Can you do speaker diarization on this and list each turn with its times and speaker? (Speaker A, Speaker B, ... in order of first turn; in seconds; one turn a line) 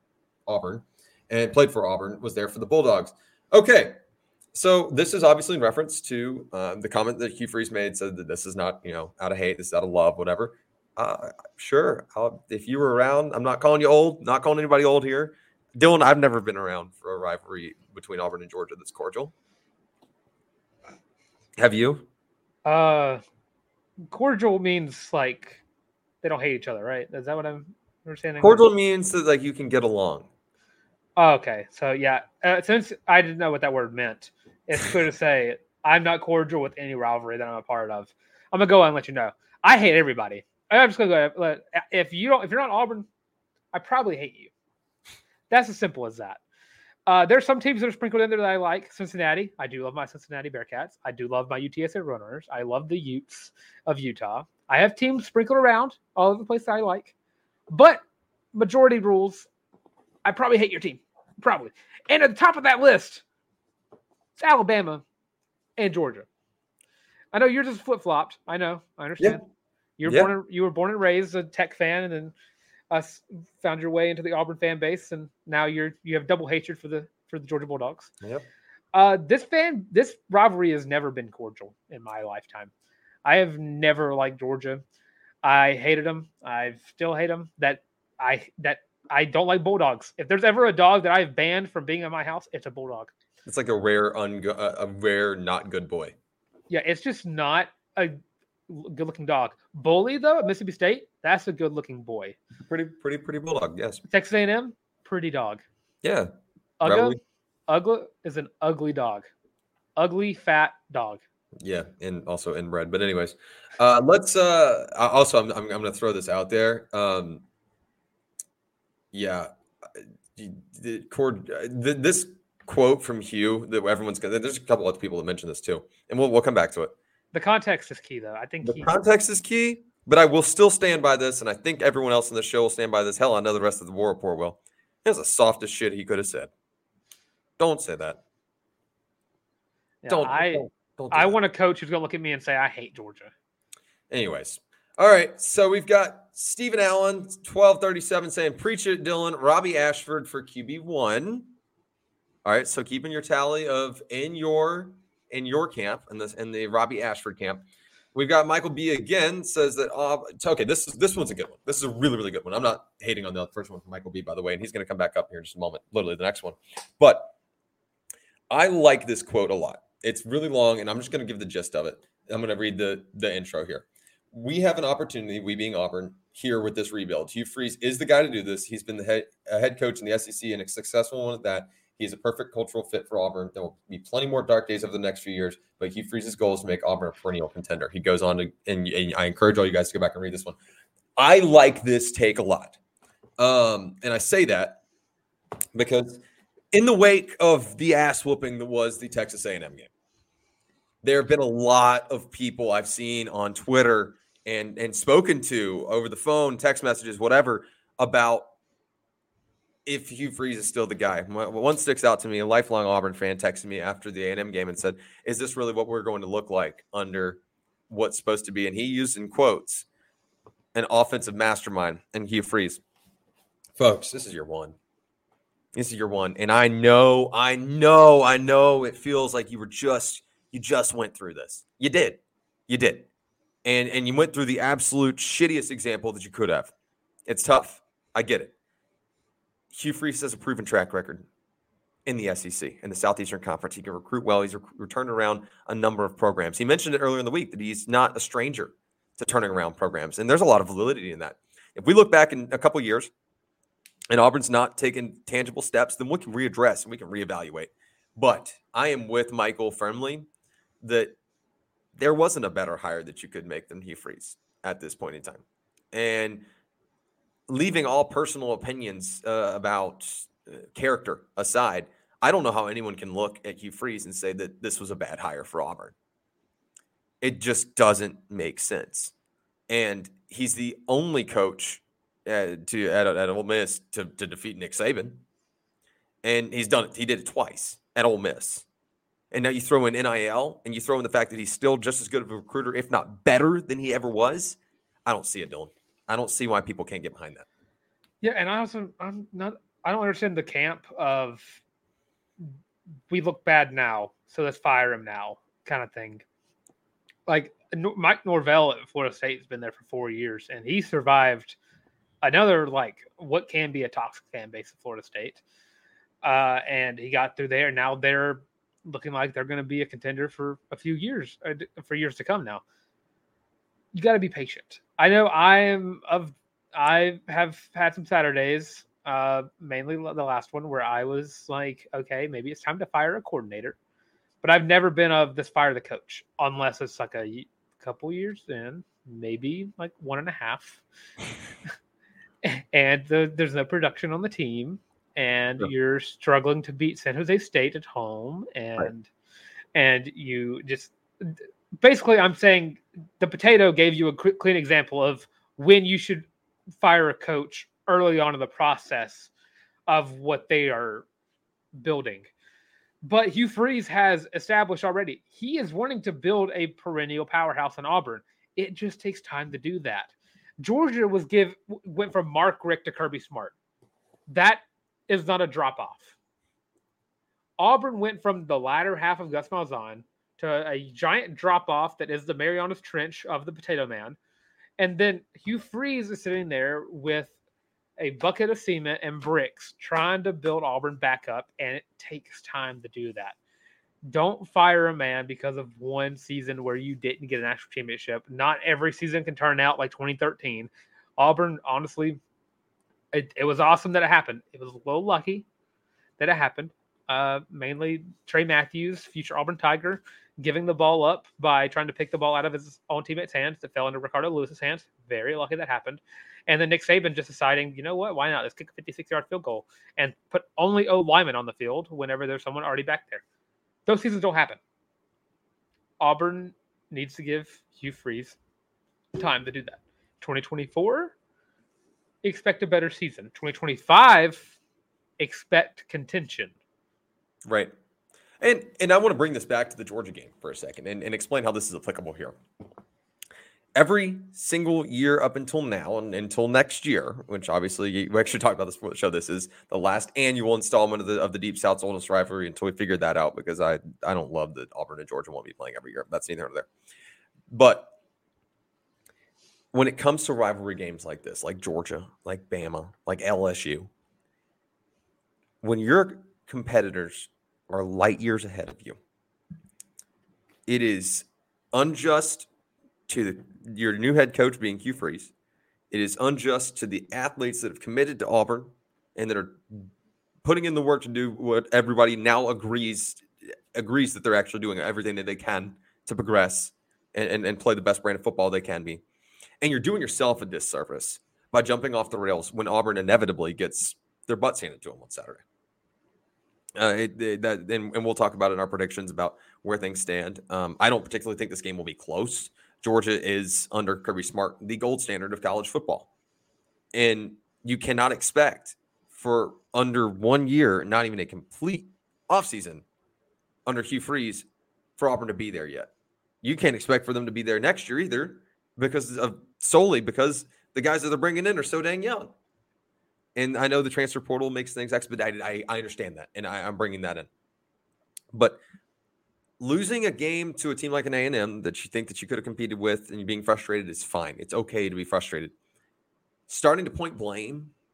Speaker A: 0.5-4.0
Speaker A: 4.5-19.3
Speaker A: 21.6-22.1
Speaker B: 22.6-23.2
Speaker B: 24.1-25.6
Speaker B: 26.2-28.7
Speaker A: 28.4-30.3
Speaker B: 31.1-43.1
Speaker B: 43.7-44.5
Speaker B: 45.5-46.4
Speaker B: 47.0-57.1
Speaker B: 57.7-58.0
Speaker B: 58.5-59.5
Speaker B: 60.2-63.2
Speaker B: 64.4-65.0
Speaker B: 65.8-66.3
Speaker B: 67.3-69.4
Speaker B: 70.0-72.3
Speaker A: 70.0-70.3
Speaker B: 72.9-78.1
Speaker A: 78.2-78.5
Speaker B: 78.9-82.7
Speaker B: 83.2-84.8
Speaker B: 85.4-93.1
Speaker A: 93.4-96.1
Speaker B: 96.7-102.3
Speaker A: 102.6-104.0
Speaker B: 104.1-105.6
Speaker A: 106.0-106.3
Speaker B: 106.8-109.2
Speaker A: 106.8-107.2
Speaker B: 110.0-111.2
Speaker A: 111.6-117.4
Speaker A: 119.1-126.9
Speaker B: 127.3-129.0
Speaker A: 128.6-136.5
Speaker A: 137.6-138.2
Speaker B: 140.0-143.3
Speaker A: 140.1-141.3
Speaker A: 144.1-151.5
Speaker A: 152.4-157.6
Speaker A: 158.1-167.3
Speaker A: 168.5-190.6
Speaker A: 191.2-192.8
Speaker A: 193.4-194.8
Speaker A: 195.7-199.9
Speaker A: 201.0-208.5
Speaker A: 209.8-219.8
Speaker A: 220.7-222.8
Speaker A: 223.8-224.8
Speaker A: 225.7-233.1
Speaker A: 233.6-236.7
Speaker A: 237.2-238.5
Speaker A: 239.7-241.2
Speaker A: 242.1-253.1
Speaker A: 254.1-260.3
Speaker A: 260.8-261.1
Speaker A: 261.9-266.4
Speaker A: 267.5-275.9
Speaker A: 277.2-279.1
Speaker A: 279.7-285.2
Speaker A: 286.2-288.6
Speaker A: 289.3-297.4
Speaker B: 298.2-301.6
Speaker B: 303.1-306.2
Speaker B: 307.3-311.6
Speaker B: 312.2-315.4
Speaker B: 316.2-322.6
Speaker B: 323.9-333.8
Speaker B: 334.4-340.8
Speaker B: 342.4-349.1
Speaker B: 349.7-356.3
Speaker B: 356.8-359.3
Speaker B: 359.9-361.1
Speaker B: 361.8-362.3
Speaker B: 363.0-373.5
Speaker B: 374.3-376.1
Speaker B: 377.6-384.2
Speaker B: 384.8-387.3
Speaker B: 388.0-393.4
Speaker B: 394.0-402.2
Speaker B: 403.1-405.4
Speaker B: 406.2-423.2
Speaker B: 423.9-424.6
Speaker B: 426.0-428.4
Speaker B: 429.1-431.1
Speaker B: 432.2-434.5
Speaker B: 435.2-436.5
Speaker A: 437.4-437.7
Speaker A: 438.4-442.4
Speaker A: 443.7-456.7
Speaker A: 457.5-457.9
Speaker A: 459.7-463.9
Speaker A: 465.6-469.0
Speaker A: 470.7-472.5
Speaker A: 473.1-475.3
Speaker A: 475.9-479.9
Speaker A: 480.4-489.0
Speaker A: 489.6-495.4
Speaker A: 496.8-506.1
Speaker A: 506.9-512.8
Speaker A: 513.6-514.5
Speaker A: 515.0-515.9
Speaker A: 516.4-522.3
Speaker A: 523.4-527.3
Speaker A: 528.3-528.6
Speaker A: 529.6-535.5
Speaker A: 536.5-537.7